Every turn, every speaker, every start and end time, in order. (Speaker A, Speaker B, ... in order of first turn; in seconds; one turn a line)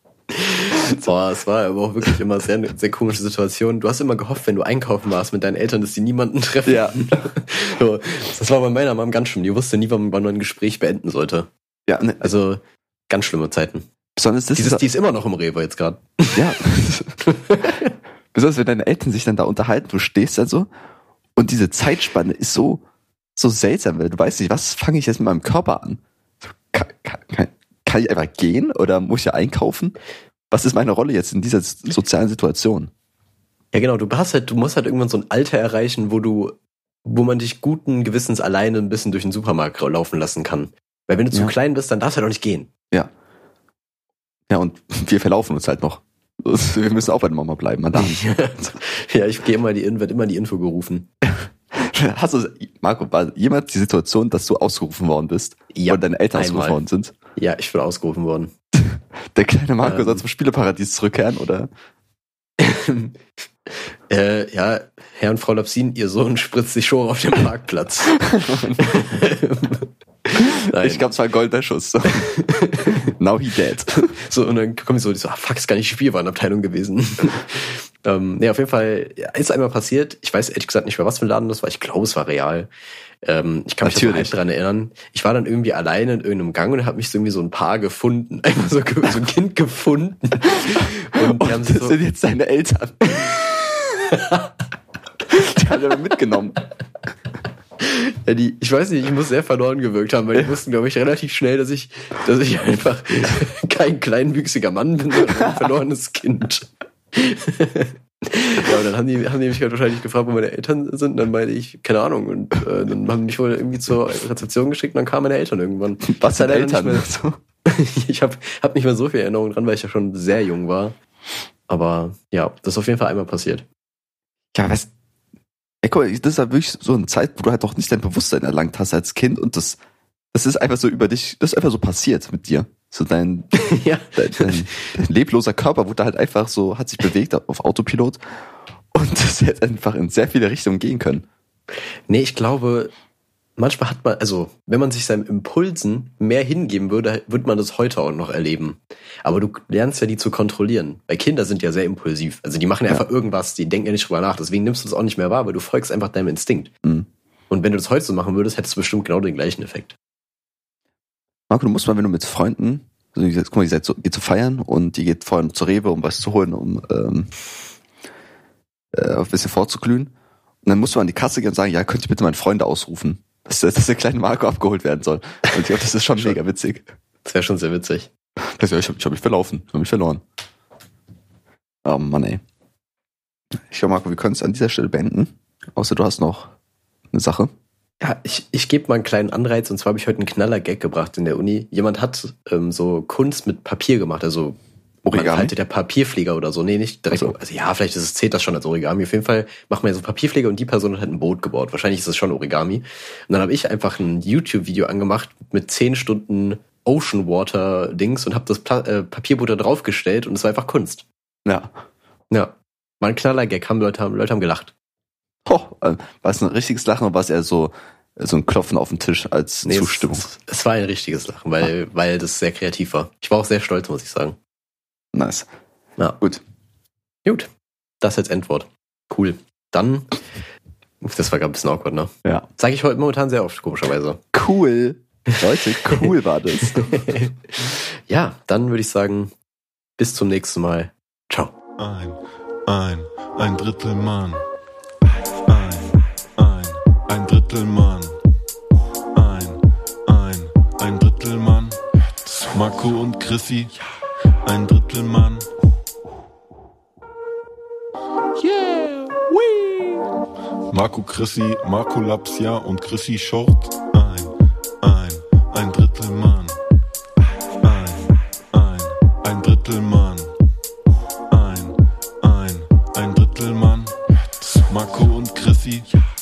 Speaker A: 0.3-11.5
Speaker B: 6.7-7.3
Speaker B: 11.9-12.3
Speaker A: 12.2-13.9
Speaker B: 14.2-14.8
Speaker A: 14.6-16.5
Speaker B: 16.3-17.2
Speaker A: 17.3-17.9
Speaker B: 18.3-20.7
Speaker B: 21.4-22.8
Speaker B: 23.4-26.0
Speaker B: 26.6-30.0
Speaker B: 30.5-32.9
Speaker A: 33.7-42.7
Speaker B: 44.5-48.8
Speaker A: 48.0-51.1
Speaker B: 51.2-57.1
Speaker A: 55.7-56.8
Speaker A: 57.4-58.5
Speaker B: 58.8-61.7
Speaker A: 59.8-60.2
Speaker A: 62.6-63.1
Speaker A: 64.1-71.0
Speaker B: 68.2-68.8
Speaker B: 70.4-72.3
Speaker A: 72.1-73.0
Speaker B: 72.9-74.2
Speaker A: 74.1-82.7
Speaker A: 83.2-92.0
Speaker B: 83.8-84.4
Speaker B: 90.7-93.5
Speaker A: 94.1-94.5
Speaker B: 95.3-96.6
Speaker A: 97.8-117.1
Speaker B: 116.0-117.4
Speaker A: 117.7-121.0
Speaker A: 121.7-123.7
Speaker B: 124.5-124.9
Speaker B: 125.8-129.8
Speaker B: 130.3-133.5
Speaker A: 133.6-134.9
Speaker B: 134.1-138.2
Speaker B: 138.9-141.3
Speaker A: 142.1-142.9
Speaker A: 143.6-156.7
Speaker A: 157.5-160.0
Speaker B: 161.5-167.3
Speaker B: 168.9-170.1
Speaker B: 170.6-176.9
Speaker A: 177.2-178.1
Speaker B: 178.4-180.2
Speaker B: 181.8-182.4
Speaker B: 183.7-186.5
Speaker B: 187.1-187.5
Speaker A: 188.0-194.6
Speaker B: 195.1-195.5
Speaker A: 195.1-211.1
Speaker B: 211.4-211.7
Speaker A: 212.3-214.7
Speaker B: 215.4-220.3
Speaker A: 219.7-224.4
Speaker B: 225.1-225.5
Speaker A: 228.0-230.2
Speaker A: 231.0-234.2
Speaker B: 234.3-237.0
Speaker A: 235.9-239.3
Speaker A: 240.0-241.5
Speaker C: 241.8-244.4
Speaker C: 245.5-248.2
Speaker C: 249.1-253.8
Speaker C: 254.4-255.5
Speaker C: 258.4-260.0
Speaker C: 260.7-266.6
Speaker C: 267.6-270.3
Speaker C: 271.3-275.9